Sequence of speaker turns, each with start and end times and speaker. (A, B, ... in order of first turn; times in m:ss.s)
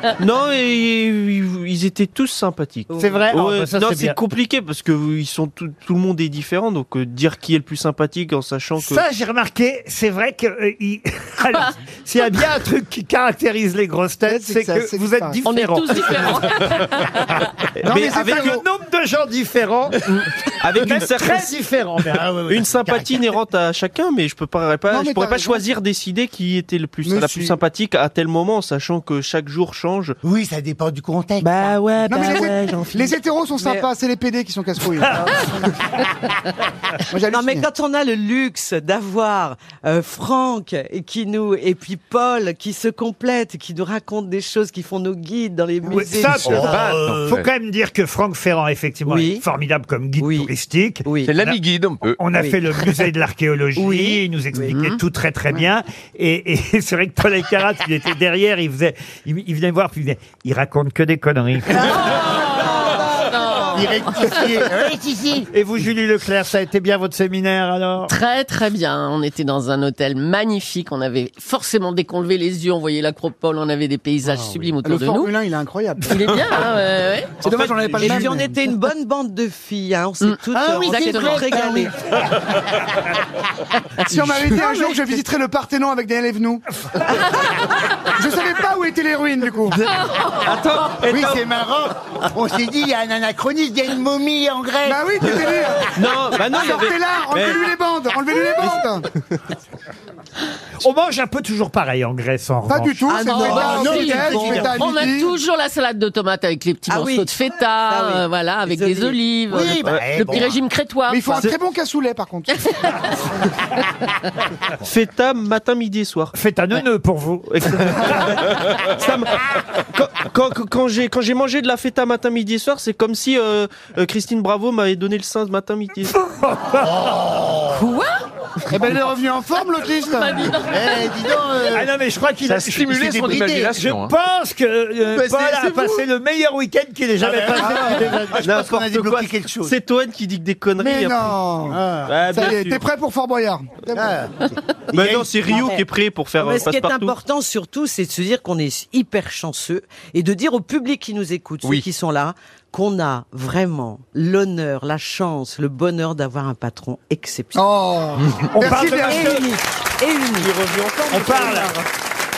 0:00.2-0:09.0 A
0:02.9-0:03.2 B
0:02.9-0:04.2 C
0:08.8-0:16.6 C
0:14.2-0:15.4 D
0:15.4-0:17.4 E
0:17.8-0:18.6 A
0:17.8-0:18.6 D
0:18.3-0:22.6 C
0:20.6-0:21.6 A
0:22.1-0:23.2 F
0:22.5-0:30.2 A
0:24.9-0:25.6 D
0:27.0-0:27.6 D
0:30.2-0:32.4 F
0:31.4-0:32.8 A
0:32.0-0:35.2 D
0:32.2-0:32.5 B
0:33.6-0:33.9 B
0:37.1-0:37.7 D
0:37.3-0:46.9 B
0:45.8-0:51.6 C
0:46.2-0:47.3 F
0:46.3-0:47.5 G
0:49.0-0:49.4 B
0:50.2-0:50.5 B
0:51.0-0:51.3 B
0:51.2-0:52.2 G
0:52.1-1:02.0 C
0:52.3-0:52.8 B
0:53.8-0:54.8 B
0:54.7-0:55.0 E
1:02.1-1:03.9 B
1:03.2-1:04.2 E
1:03.6-1:05.5 F
1:05.5-1:08.1 C
1:08.1-1:15.3 E
1:14.3-1:16.5 D
1:16.0-1:17.4 E
1:17.4-1:18.6 D
1:17.5-1:18.2 A
1:17.7-1:21.9 B
1:20.2-1:21.5 E
1:20.5-1:21.9 F
1:24.0-1:27.4 D
1:24.1-1:24.5 E
1:24.5-1:25.2 B
1:28.1-1:29.8 D
1:30.4-1:31.5 A
1:31.0-1:35.8 F
1:34.8-1:39.0 D
1:35.9-1:37.7 A
1:38.6-1:38.9 A
1:40.8-1:43.7 C
1:42.7-1:45.4 D
1:43.1-1:44.7 B
1:43.2-1:44.8 F
1:43.8-1:51.5 E
1:46.9-1:49.2 B
1:49.5-1:50.6 F
1:51.1-1:52.5 D
1:54.8-1:56.3 A
1:56.3-1:58.5 C
1:57.6-2:06.1 A
2:06.1-2:07.2 C
2:06.9-2:07.8 F
2:07.7-2:08.2 E
2:08.7-2:10.6 D
2:10.0-2:11.2 E
2:10.6-2:11.9 F
2:11.7-2:18.5 C
2:12.5-2:14.1 G
2:13.0-2:13.7 F
2:15.2-2:15.5 A
2:15.5-2:15.9 G
2:17.2-2:19.8 F
2:18.4-2:21.4 A
2:20.8-2:24.2 D
2:21.7-2:22.2 F
2:22.0-2:22.8 A
2:23.9-2:25.7 F
2:24.9-2:27.2 A
2:25.5-2:25.8 B
2:26.4-2:37.6 B
2:37.5-2:39.4 D
2:38.5-2:39.5 C
2:38.6-2:41.8 B
2:40.4-2:41.2 A
2:41.1-2:41.7 C